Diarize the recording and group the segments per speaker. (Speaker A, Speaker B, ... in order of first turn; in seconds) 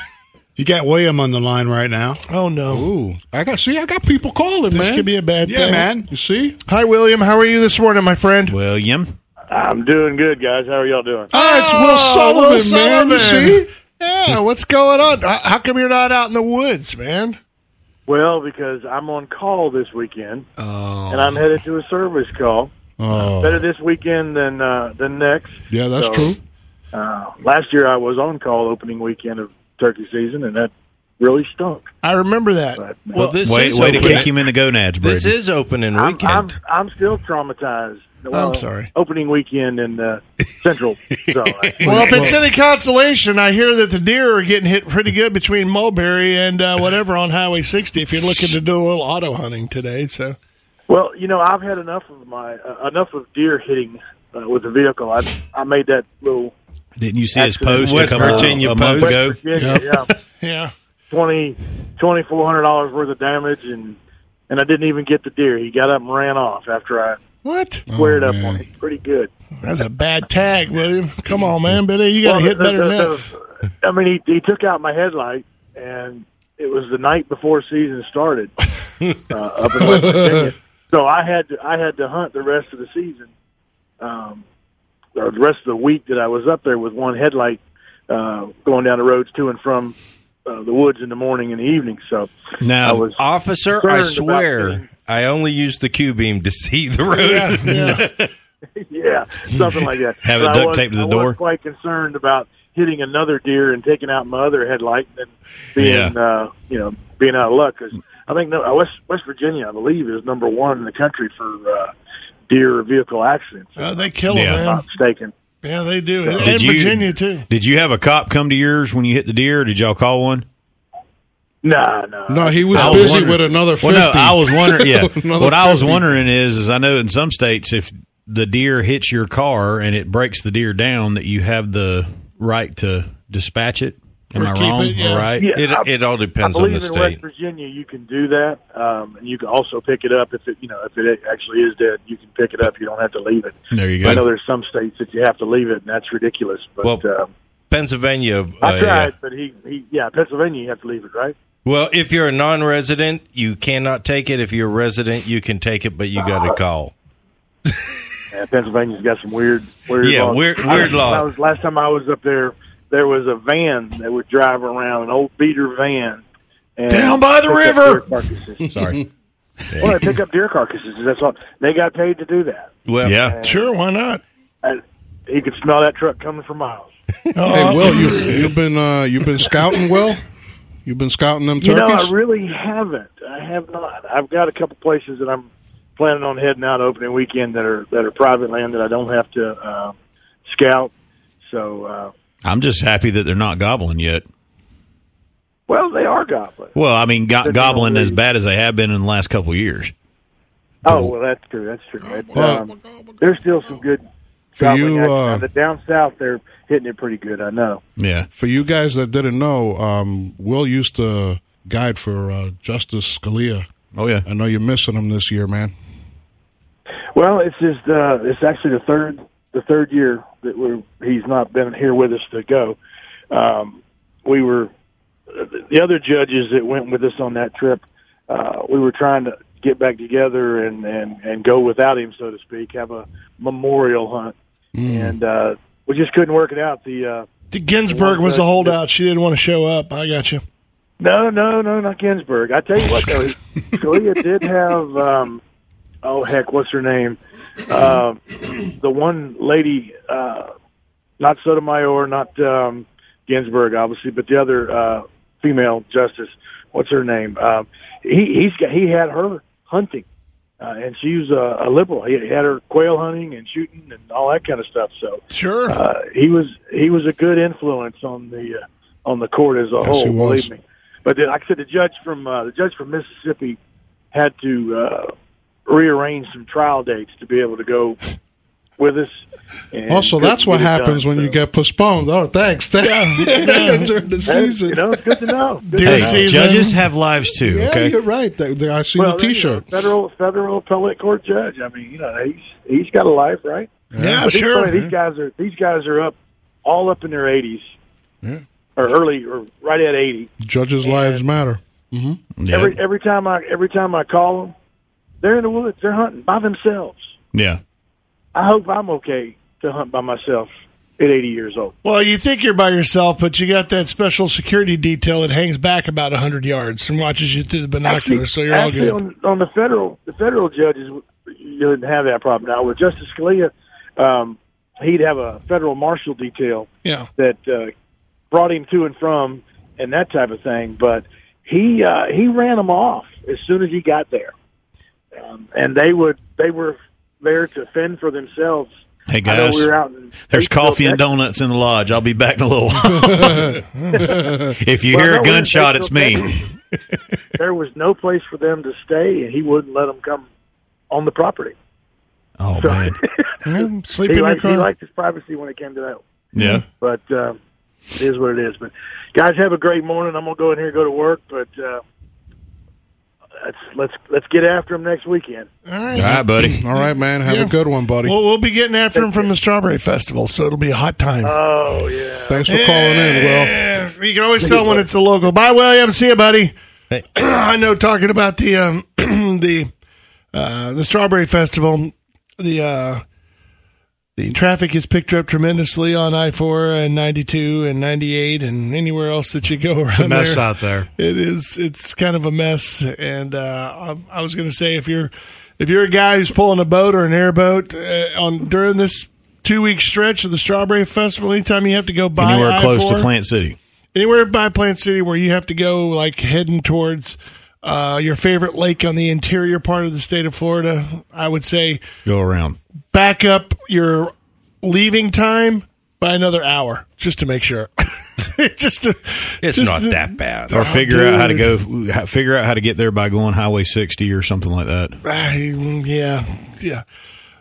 Speaker A: 0.6-2.2, 5.5-6.1, 389.9-390.9
Speaker B: 2.3-2.9, 4.7-6.0, 6.7-8.6, 11.3-17.4, 20.6-21.3, 32.0-34.2, 38.3-38.9, 41.8-50.4, 60.4-60.7, 67.5-67.8, 69.6-73.2, 97.1-98.1, 113.8-114.8, 115.6-117.5, 122.8-123.3, 134.3-135.3, 166.9-168.0, 173.4-174.2, 177.3-178.4, 237.5-240.4, 265.3-265.8, 282.8-283.9, 285.7-286.8, 294.0-294.8, 311.8-319.0, 343.8-344.1, 353.5-354.7, 365.7-366.3, 367.3-367.5, 368.1-371.4, 372.5-376.5, 377.1-379.7, 380.3-383.0, 384.2-403.1, 403.9-411.8, 412.9-421.5, 425.1-426.8
Speaker C: 2.7-5.1, 6.1-6.6, 11.3-13.7, 23.0-23.7, 25.7-26.4, 42.0-42.4, 59.6-59.9, 67.9-68.7, 79.8-80.5, 122.3-126.2, 168.7-169.0, 177.5-180.2, 180.8-182.1, 202.3-202.8, 204.6-205.4, 208.3-213.7, 214.2-215.7, 234.8-235.2, 269.8-270.5, 279.9-285.3, 287.4-289.7, 293.9-294.9, 300.4-302.2, 343.0-344.6, 365.9-368.2, 372.3-373.6
Speaker D: 8.5-9.2, 33.4-35.3, 57.0-59.9, 92.6-93.1, 100.2-101.4, 105.8-106.2, 114.3-114.7, 116.4-120.5, 122.7-135.5, 143.7-144.3, 168.7-169.0, 173.0-173.4, 192.4-194.2, 196.7-199.9, 200.9-201.1, 208.0-208.3, 213.9-214.2, 285.8-288.0, 302.4-302.8, 307.3-307.6, 339.1-339.8, 340.3-343.6, 344.6-346.4, 352.4-353.0, 356.4-356.7, 365.9-366.6, 402.2-403.6, 412.1-412.6, 420.5-425.0
Speaker E: 9.5-11.3, 18.1-20.5, 21.1-22.7, 23.4-26.3, 26.9-31.9, 32.8-33.3, 35.9-42.3, 50.9-56.5, 57.4-60.1, 61.1-64.0, 64.5-67.2, 67.9-69.3, 72.2-78.6, 79.1-83.3, 84.0-84.4, 85.2-94.9, 98.8-111.9, 112.5-115.3, 116.2-116.5, 121.6-123.3, 135.4-147.3, 148.6-151.4, 158.3-166.2, 166.8-168.7, 169.8-173.7, 174.6-176.9, 181.6-192.1, 195.7-196.7, 197.4-198.2, 200.8-204.0, 204.6-207.8, 217.2-222.8, 223.3-224.7, 225.3-234.3, 234.8-237.3, 237.9-238.8, 241.0-245.4, 246.0-250.5, 251.2-260.1, 260.6-273.6, 274.1-275.1, 275.7-278.0, 278.8-281.4, 284.3-286.4, 289.0-297.8, 298.8-300.3, 300.8-301.2, 302.5-304.5, 305.2-307.1, 308.4-311.7, 317.9-327.7, 328.3-334.3, 335.2-338.7, 339.2-341.0, 344.9-346.5, 347.4-350.3, 350.9-351.6, 352.6-353.3, 354.1-356.0, 356.7-357.4, 358.0-361.8, 363.4-365.5, 368.9-369.3, 371.2-372.6, 374.4-374.8
Speaker F: 33.1-34.4, 35.0-36.6, 41.2-42.3, 57.8-59.3, 93.2-98.3, 135.6-137.2, 147.7-149.1, 151.7-156.9, 160.0-161.3, 169.7-170.1, 172.9-173.2, 419.4-420.5